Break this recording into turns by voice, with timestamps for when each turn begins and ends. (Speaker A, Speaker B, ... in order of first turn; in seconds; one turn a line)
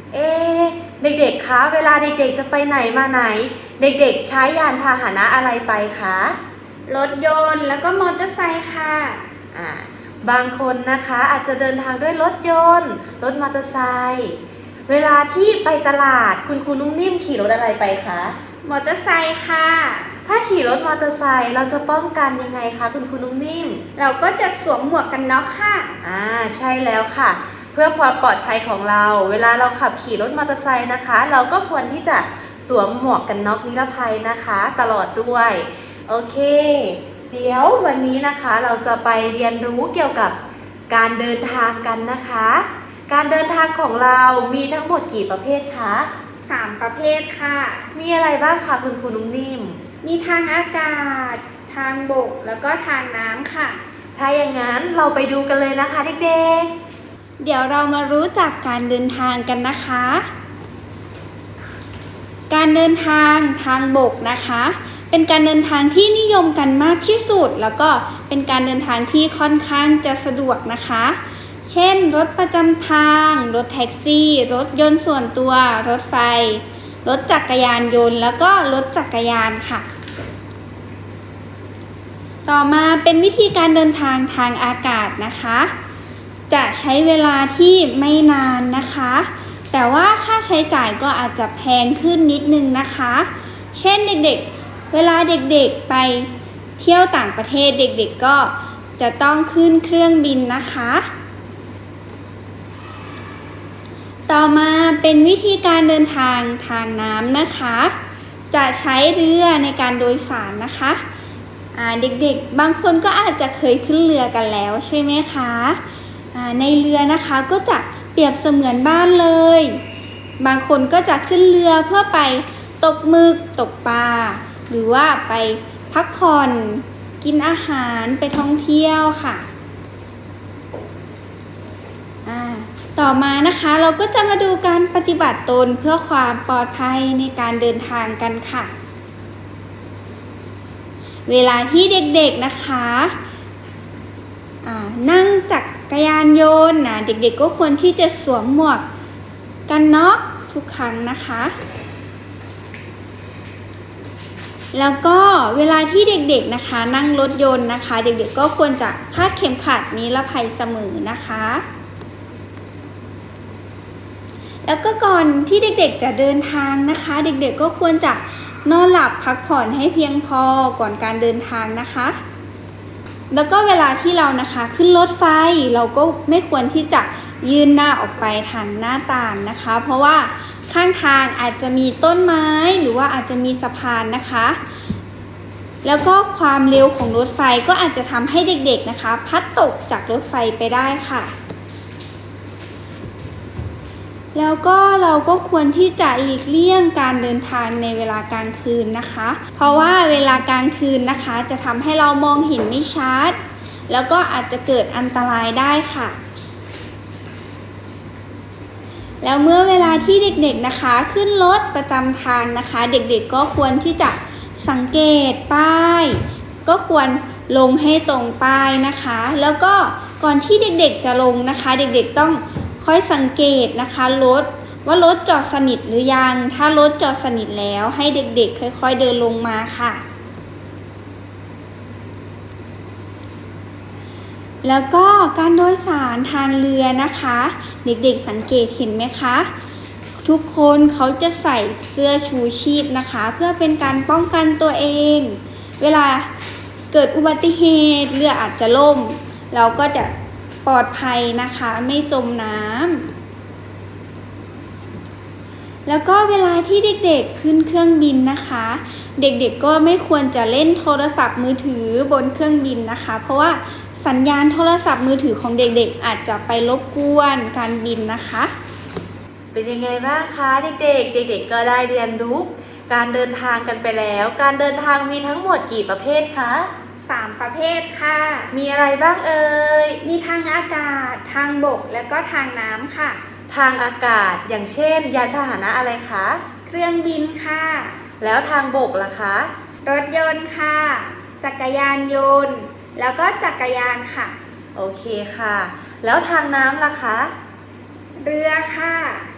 Speaker A: 0.1-6.4
Speaker B: 6.9-9.3
Speaker A: 9.5-18.4
Speaker B: 18.6-20.1
Speaker A: 20.2-23.8
Speaker B: 23.9-26.0
Speaker A: 26.0-40.4
Speaker A: 40.9-46.1
Speaker B: 46.5-47.9
Speaker A: 47.9-49.8
Speaker B: 50.0-53.8
Speaker A: 54.1-56.7
Speaker B: 57.4-60.3
Speaker B: 62.5-79.9
Speaker B: 82.5-85.7
Speaker B: 86.5-101.1
Speaker B: 104.3-107.9
Speaker B: 108.5-111.0
Speaker B: 111.7-115.8
Speaker B: 116.3-119.7
Speaker B: 120.4-129.4
Speaker B: 132.2-138.7
Speaker B: 141.3-143.1
Speaker B: 144.6-148.8
Speaker B: 149.7-151.5
Speaker B: 154.7-161.6
Speaker B: 164.6-172.2
Speaker B: 173.3-184.6
Speaker B: 185.8-191.3
Speaker B: 194.3-203.4
Speaker B: 203.9-206.2
Speaker B: 209.2-230.0
Speaker B: 234.6-239.5
Speaker B: 240.2-246.3
Speaker B: 246.9-250.1
Speaker B: 250.6-253.1
Speaker B: 255.8-268.5
Speaker A: 269.5-276.7
Speaker B: 277.0-278.5
Speaker A: 278.5-280.0
Speaker B: 280.0-283.2
Speaker A: 283.5-286.4
Speaker B: 286.6-288.0
Speaker A: 288.2-289.5
Speaker B: 289.8-294.4
Speaker A: 294.7-297.3
Speaker B: 298.2-299.3